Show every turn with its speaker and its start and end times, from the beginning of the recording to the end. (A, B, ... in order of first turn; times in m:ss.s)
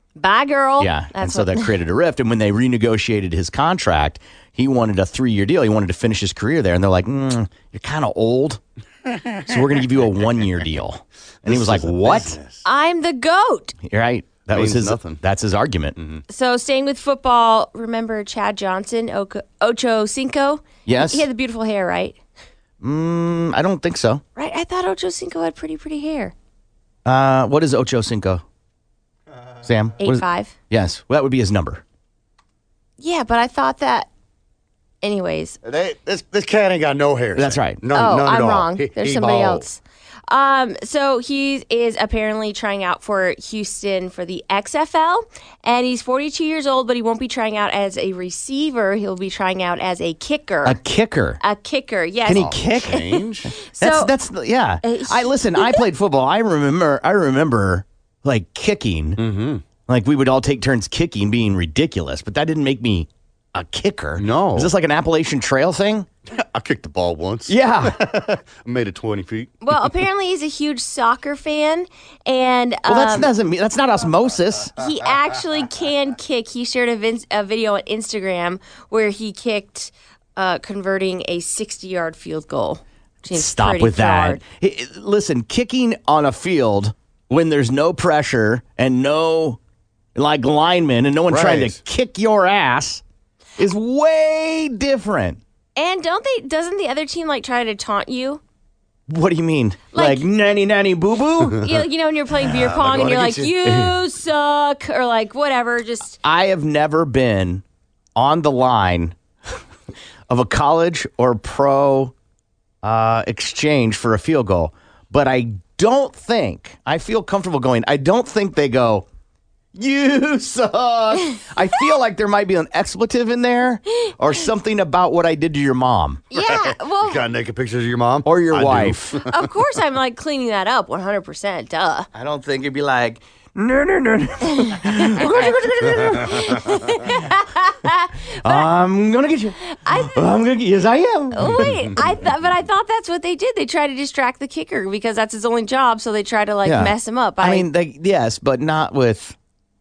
0:00.2-0:01.7 A
0:00.8-0:08.6 B
0:09.1-0:09.6 C
0:09.5-0:12.4 B
0:11.4-0:12.6 C
0:12.6-0:13.8 A
0:13.9-0:16.0 B
0:14.5-0:15.2 C
0:16.0-0:16.2 C
0:16.3-0:22.2 A
0:20.9-0:21.2 B
0:22.8-0:24.2 B
0:24.4-0:26.4 A
0:27.1-0:28.4 B
0:29.6-0:31.8 B
0:30.0-0:30.5 A
0:33.0-0:34.1 A
0:35.0-0:35.6 A
0:35.6-0:39.7 C
0:37.4-0:37.8 B
0:37.9-0:50.8 A
0:50.6-0:51.4 B
0:51.4-0:52.7 A
0:52.3-0:59.2 B
0:52.3-0:53.5 C
0:53.7-0:54.1 A
0:54.8-0:55.8 A
0:59.2-0:59.6 C
0:59.9-1:06.1 B
1:04.2-1:04.7 C
1:06.3-1:09.5 C
1:07.5-1:08.0 B
1:09.6-1:13.3 A
1:12.9-1:14.8 B
1:14.8-1:24.4 A
1:23.3-1:29.6 B
1:30.2-1:33.0 B
1:31.3-1:31.8 C
1:33.6-1:35.4 B
1:35.8-1:38.4 A
1:39.1-1:41.7 B
1:39.9-1:40.2 A
1:41.6-1:46.2 A
1:42.4-1:43.9 C
1:46.2-1:47.6 B
1:48.2-1:49.2 B
1:50.3-1:52.1 B
1:52.8-1:59.1 B
1:59.8-2:06.2 B
2:06.3-2:07.2 A
2:06.4-2:09.5 C
2:08.2-2:09.2 B
2:09.2-2:12.1 A
2:12.1-2:16.8 B
2:15.0-2:15.5 A
2:16.0-2:18.7 A
2:18.4-2:21.7 B
2:19.6-2:20.2 A
2:21.3-2:27.7 A
2:26.6-2:29.4 B